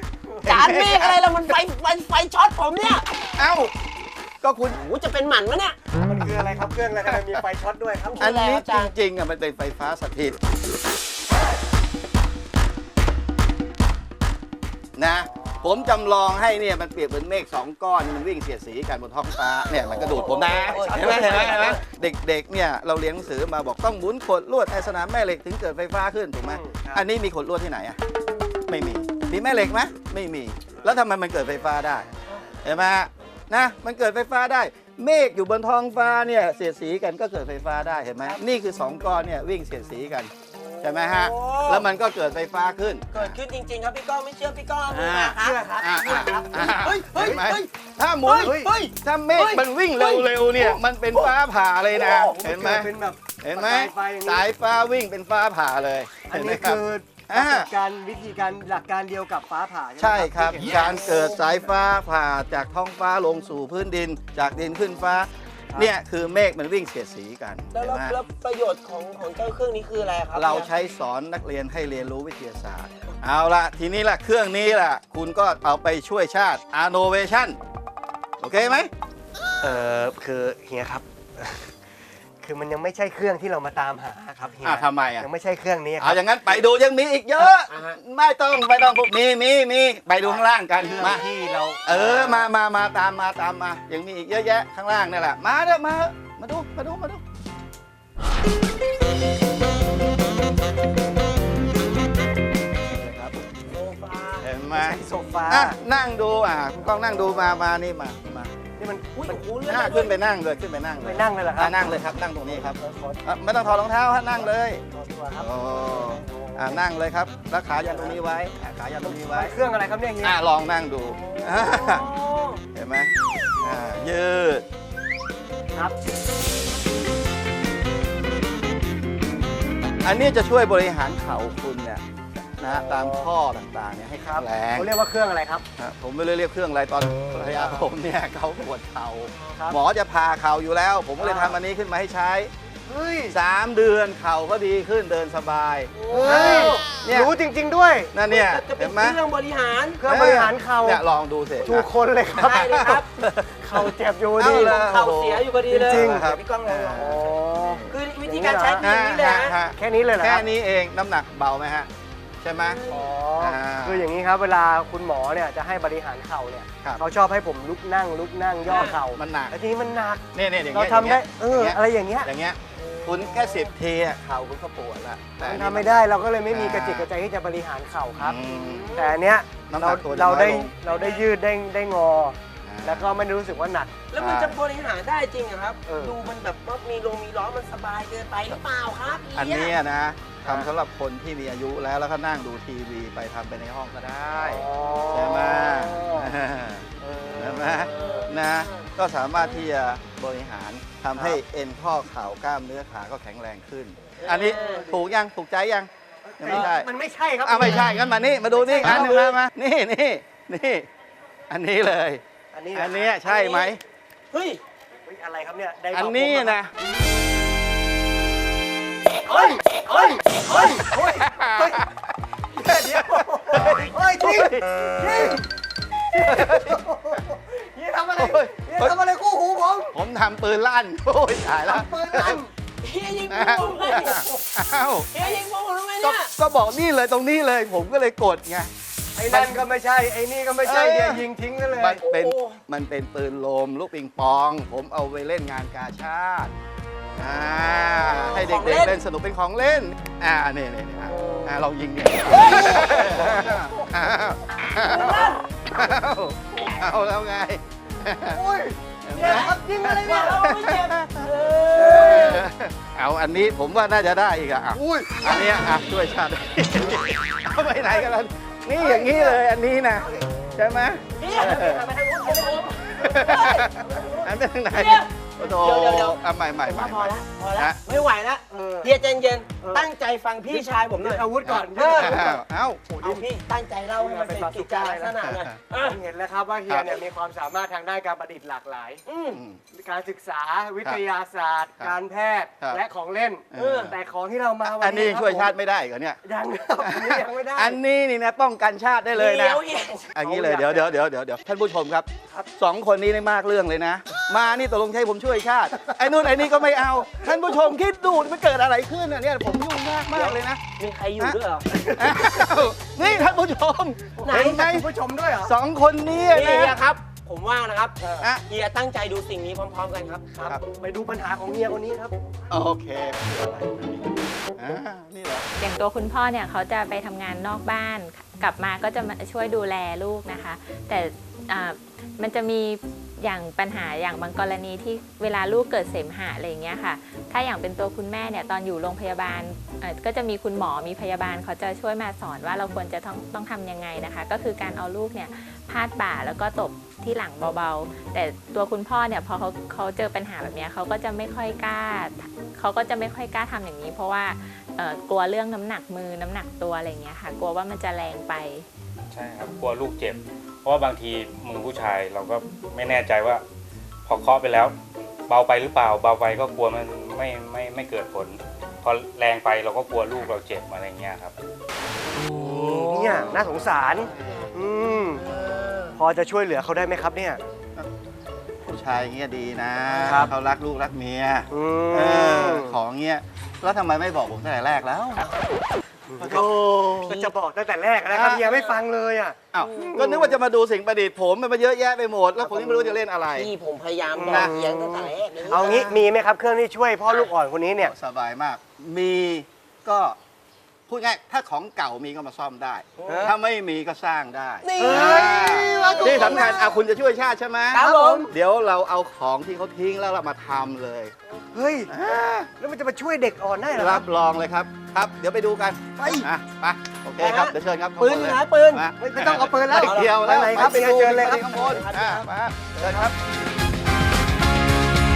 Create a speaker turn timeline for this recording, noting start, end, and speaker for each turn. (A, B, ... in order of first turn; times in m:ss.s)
0:00.3-0:00.6 A
0:00.4-0:01.6 B
0:00.5-0:03.0 C
0:03.4-0:03.7 B
0:04.4-0:04.8 B
0:04.7-0:05.8 C
0:06.1-0:08.3 A
0:07.1-0:07.4 B
0:08.1-0:08.9 C
0:08.2-0:10.4 B
0:15.0-0:28.0 B
0:19.9-0:21.8 A
0:20.7-0:21.4 C
0:26.4-0:27.0 A
0:28.7-0:32.1 B
0:32.6-0:43.4 B
0:40.6-0:41.8 C
0:43.1-0:47.7 C
0:44.9-0:57.7 B
0:45.4-0:47.5 A
0:48.2-0:50.8 C
0:48.4-0:48.8 A
0:52.1-0:54.5 A
0:56.3-1:01.3 A
1:00.0-1:08.2 B
1:07.7-1:10.7 C
1:10.3-1:17.6 B
1:18.4-1:18.9 B
1:19.6-1:21.7 A
1:22.4-1:26.2 A
1:24.6-1:25.3 B
1:26.0-1:31.3 B
1:30.2-1:32.5 A
1:31.9-1:37.2 B
1:42.8-1:43.4 B
1:43.7-1:44.5 C
1:44.4-1:48.5 B
1:44.7-1:45.8 A
1:48.8-1:49.7 A
1:49.2-1:50.1 C
1:49.6-1:54.8 B
1:51.0-1:53.2 A
1:54.4-1:56.7 A
1:55.4-1:59.5 B
1:57.8-1:58.2 A
1:59.0-2:00.4 A
2:00.2-2:02.1 B
2:01.2-2:02.6 C
2:02.7-2:04.7 B
2:10.0-2:12.0 B
2:12.6-2:14.9 B
2:12.7-2:13.2 A
2:14.2-2:15.6 A
2:15.8-2:22.5 B
2:17.5-2:17.9 A
2:21.2-2:21.6 A
2:22.9-2:23.4 A
2:23.3-2:27.3 B
2:25.9-2:26.8 C
2:26.1-2:28.2 A
2:28.1-2:29.2 B
2:28.3-2:30.0 C
2:30.0-2:31.0 A
2:30.0-2:37.9 B
2:31.6-2:33.1 A
2:32.4-2:33.0 C
2:33.6-2:34.8 A
2:34.5-2:36.9 C
2:35.6-2:38.9 A
2:37.9-2:39.6 C
2:38.8-2:41.9 B
2:39.6-2:40.4 A
2:42.4-2:42.8 B
2:42.7-2:43.1 C
2:42.9-2:52.3 A
2:43.4-2:44.1 B
2:48.7-2:49.0 C
2:48.9-2:49.5 B
2:50.3-2:57.1 B
2:53.0-2:53.7 C
2:55.4-3:04.1 A
2:58.2-2:59.0 B
2:59.7-3:00.8 B
3:00.9-3:01.2 C
3:02.6-3:03.2 B
3:04.1-3:09.7 C
3:04.2-3:04.6 B
3:05.9-3:06.2 A
3:09.3-3:26.9 B
3:10.4-3:10.7 A
3:14.4-3:15.5 C
3:14.5-3:16.3 A
3:17.0-3:18.4 A
3:17.9-3:18.8 C
3:21.2-3:21.4 A
3:24.2-3:25.0 A
3:24.2-3:24.8 C
3:26.3-3:27.9 A
3:27.4-3:30.9 B
3:28.5-3:29.4 A
3:31.5-3:32.2 B
3:32.5-3:33.5 A
3:32.7-3:33.8 B
3:33.4-3:33.7 C
3:34.3-3:34.6 C
3:35.1-3:36.7 A
3:35.9-3:36.7 B
3:39.2-3:41.8 A
3:39.3-3:40.6 C
3:41.1-3:42.0 B
3:42.5-3:45.5 A
3:42.6-3:45.4 B
3:46.1-3:50.0 A
3:46.2-3:46.8 B
3:48.2-3:49.0 B
3:49.9-3:52.4 B
3:51.6-3:52.5 A
3:52.8-3:54.3 C
3:53.3-3:55.1 B
3:53.7-3:54.4 A
3:55.1-3:56.3 C
3:55.2-3:55.4 A
3:56.0-3:58.7 B
3:59.2-4:02.0 A
3:59.3-3:59.6 B
4:00.6-4:01.3 B
4:01.8-4:06.5 B
4:02.1-4:02.5 C
4:07.2-4:18.4 B
4:08.3-4:09.0 C
4:13.2-4:13.9 A
4:14.8-4:15.3 C
4:18.3-4:20.7 A
4:19.0-4:31.9 B
4:20.6-4:22.0 C
4:21.7-4:22.4 A
4:24.8-4:25.7 A
4:27.8-4:28.1 A
4:28.8-4:29.4 A
4:31.2-4:41.2 C
4:31.2-4:34.1 A
4:33.0-4:37.8 B
4:38.5-4:38.9 A
4:39.6-4:39.9 A
4:40.4-4:43.4 A
4:41.4-4:42.9 B
4:41.8-4:42.0 C
4:43.0-4:46.0 C
4:44.0-4:49.0 A
4:45.2-4:45.6 B
4:46.7-4:46.9 B
4:49.1-4:49.4 C
4:49.3-4:49.6 B
4:49.7-4:55.5 A
4:53.5-4:54.0 B
4:54.6-4:56.2 B
4:56.2-4:57.8 A
4:56.8-4:59.6 B
4:59.2-5:00.2 C
5:00.2-5:10.6 B
5:00.2-5:00.9 A
5:07.2-5:07.6 A
5:10.1-5:11.7 C
5:11.7-5:12.3 A
5:11.9-5:14.9 B
5:14.2-5:15.5 A
5:14.2-5:14.6 C
5:15.4-5:16.8 B
5:16.3-5:20.3 C
5:20.3-5:22.2 A
5:22.5-5:25.5 B
5:25.6-5:58.7 D
5:59.1-6:03.4 E
6:04.1-6:04.8 E
6:05.3-6:11.3 E
6:12.2-6:15.3 A
6:14.2-6:14.6 B
6:15.2-6:15.9 B
6:16.0-6:17.4 A
6:18.6-6:25.3 B
6:19.9-6:20.4 A
6:21.5-6:22.8 A
6:26.1-6:30.4 A
6:26.2-6:27.3 B
6:28.1-6:28.4 B
6:29.5-6:33.5 B
6:32.6-6:35.6 C
6:34.1-6:37.9 A
6:35.5-6:36.0 B
6:37.8-6:40.2 B
6:40.9-6:51.1 B
6:43.1-6:43.3 A
6:44.7-6:45.0 C
6:44.8-6:46.8 A
6:45.9-6:46.3 C
6:47.7-6:48.2 C
6:47.8-6:48.3 A
6:51.5-6:51.9 A
6:51.9-6:52.5 B
6:52.6-6:54.0 A
6:53.7-7:03.2 B
6:56.0-6:56.3 A
6:57.2-6:58.8 C
6:58.9-7:02.0 A
7:01.7-7:02.2 C
7:02.8-7:03.1 A